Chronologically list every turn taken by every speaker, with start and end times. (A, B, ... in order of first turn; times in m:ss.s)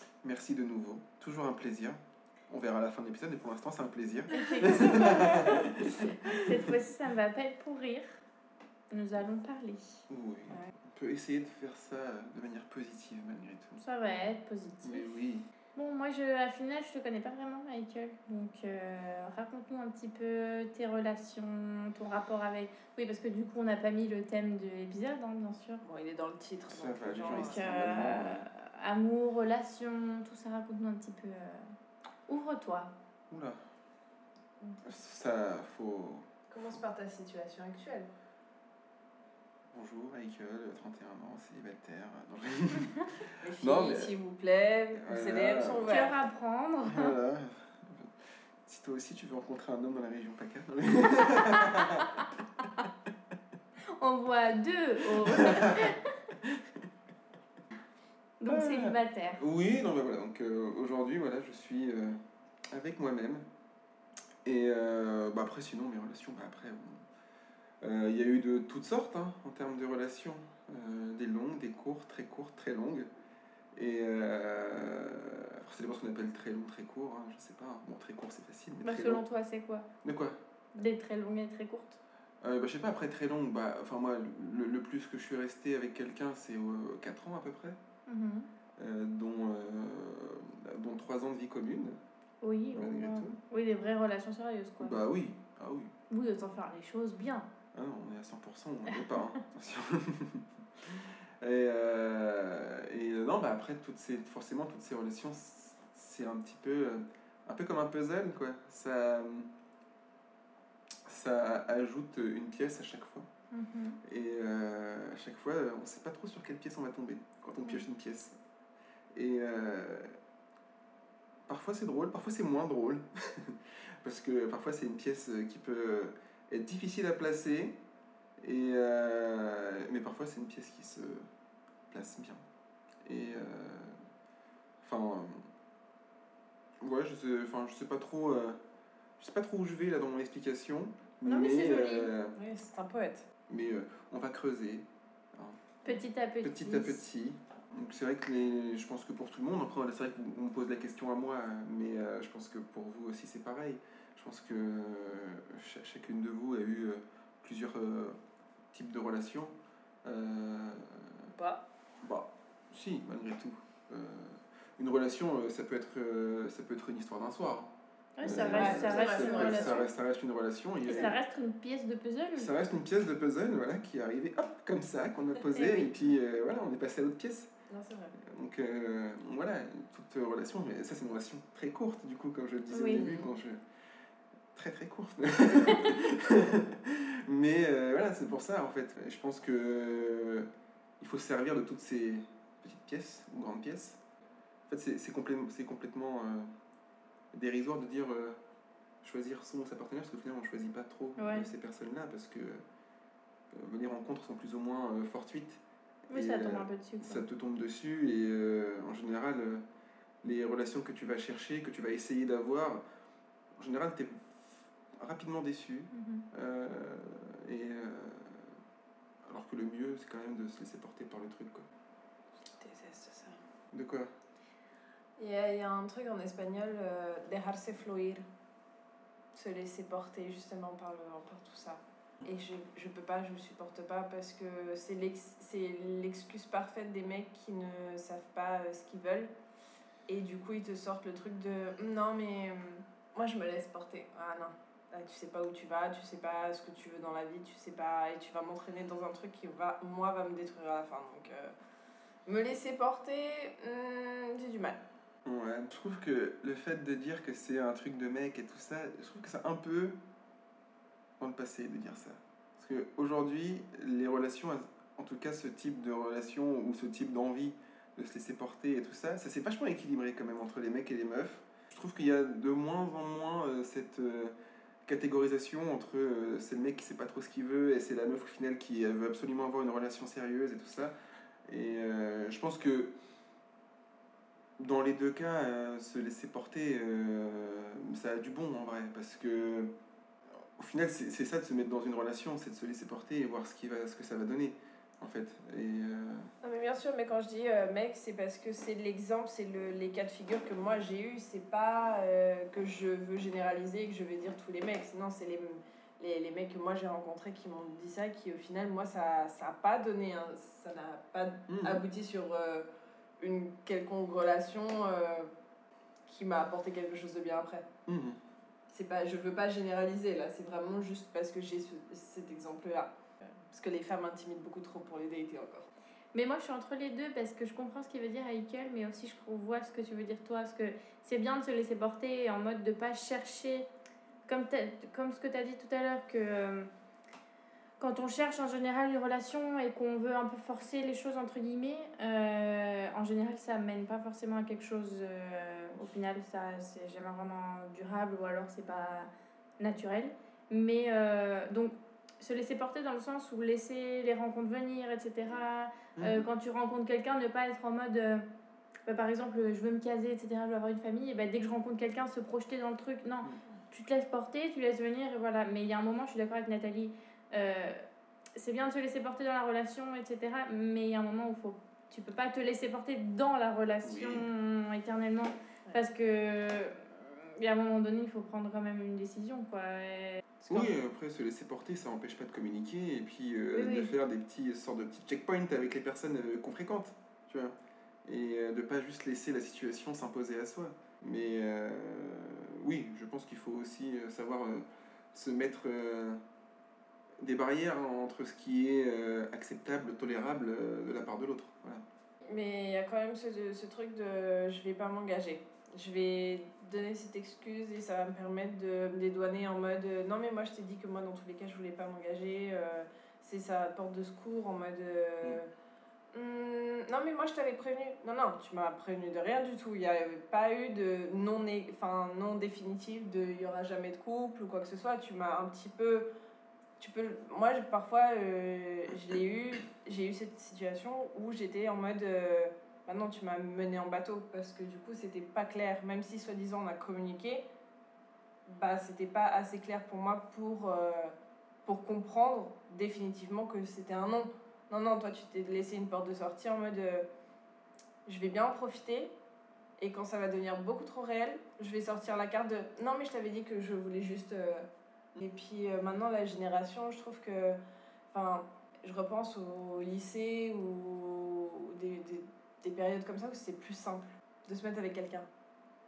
0:00.2-0:06.4 A
0:04.3-0:08.2 B
0:08.9-0:10.1 B
0:10.1-0:13.8 A
0:13.8-0:15.2 B
0:14.8-0:15.5 A
0:15.8-0:25.8 B
0:25.8-0:28.1 C
0:26.7-0:28.4 A
0:27.4-0:31.6 B
0:32.3-0:33.0 B
0:33.3-0:33.6 A
0:34.8-0:36.8 A
0:36.5-0:38.1 C
0:39.7-0:44.1 A
0:43.4-0:46.2 C
0:44.9-0:45.9 A
0:45.9-0:47.2 B
0:46.9-0:52.2 A
0:51.6-0:52.1 B
0:54.0-0:56.1 B
0:55.2-0:56.7 A
0:58.4-0:59.4 B
0:58.5-1:03.5 A
1:04.4-1:07.0 A
1:07.8-1:13.1 A
1:13.8-1:19.2 A
1:18.8-1:19.9 B
1:20.0-1:20.4 A
1:20.7-1:22.0 B
1:22.4-1:27.8 A
1:28.1-1:28.5 B
1:28.8-1:32.0 A
1:32.4-1:35.0 B
1:32.7-1:33.4 A
1:34.8-1:35.9 A
1:36.1-1:37.5 B
1:37.7-1:49.5 A
1:51.0-1:53.3 A
1:53.5-1:54.0 B
1:54.0-1:58.4 A
1:59.1-2:00.1 A
2:01.5-2:07.8 A
2:08.4-2:11.3 A
2:11.9-2:12.4 A
2:13.0-2:14.0 A
2:14.8-2:15.5 A
2:16.8-2:18.6 A
2:19.2-2:22.4 A
2:21.2-2:22.1 B
2:22.4-2:23.3 C
2:23.5-2:25.6 A
2:25.8-2:27.0 B
2:26.4-2:38.2 A
2:38.7-2:41.3 A
2:41.4-2:41.6 C
2:42.0-2:47.7 A
2:48.2-2:49.9 B
2:48.2-2:51.2 A
2:48.4-2:49.9 C
2:50.8-2:52.5 B
2:52.4-2:57.5 A
2:55.5-2:55.9 B
2:57.7-2:58.2 C
2:58.2-3:03.6 A
3:02.7-3:03.0 B
3:02.9-3:03.3 C
3:04.5-3:10.5 A
3:11.0-3:14.0 A
3:14.7-3:16.5 A
3:17.3-3:18.4 A
3:19.0-3:22.6 A
3:21.2-3:21.5 B
3:23.5-3:25.6 A
3:26.1-3:27.2 B
3:26.1-3:29.6 A
3:30.2-3:32.8 A
3:33.6-3:38.6 A
3:35.9-3:36.2 B
3:39.2-3:41.7 A
3:42.4-3:43.4 C
3:43.7-3:44.1 A
3:45.2-3:48.2 C
3:49.3-3:59.3 C
4:00.1-4:11.5 C
4:12.3-4:14.8 C
4:15.2-4:20.0 A
4:21.2-4:34.3 A
4:34.9-4:40.9 A
4:41.5-4:43.0 A
4:44.6-4:49.7 A
4:50.4-4:56.3 A
4:56.4-5:12.7 C
5:11.5-5:11.8 A
5:13.2-5:15.3 C
5:16.1-5:17.7 C
5:17.9-5:18.2 A
5:18.7-5:25.7 C
5:26.1-5:33.7 B
5:34.3-5:36.7 B
5:37.8-5:58.3 B
5:56.0-5:56.2 A
5:58.9-6:07.8 B
6:08.4-6:20.7 B
6:13.8-6:14.3 A
6:20.5-6:27.6 A
6:23.5-6:23.9 B
6:28.1-6:36.2 A
6:37.2-6:41.8 A
6:42.2-6:55.5 C
6:56.1-7:06.1 C
7:06.8-7:17.4 C
7:18.5-7:27.1 C
7:28.1-7:29.1 C
7:29.8-7:37.6 C
7:38.1-7:45.3 C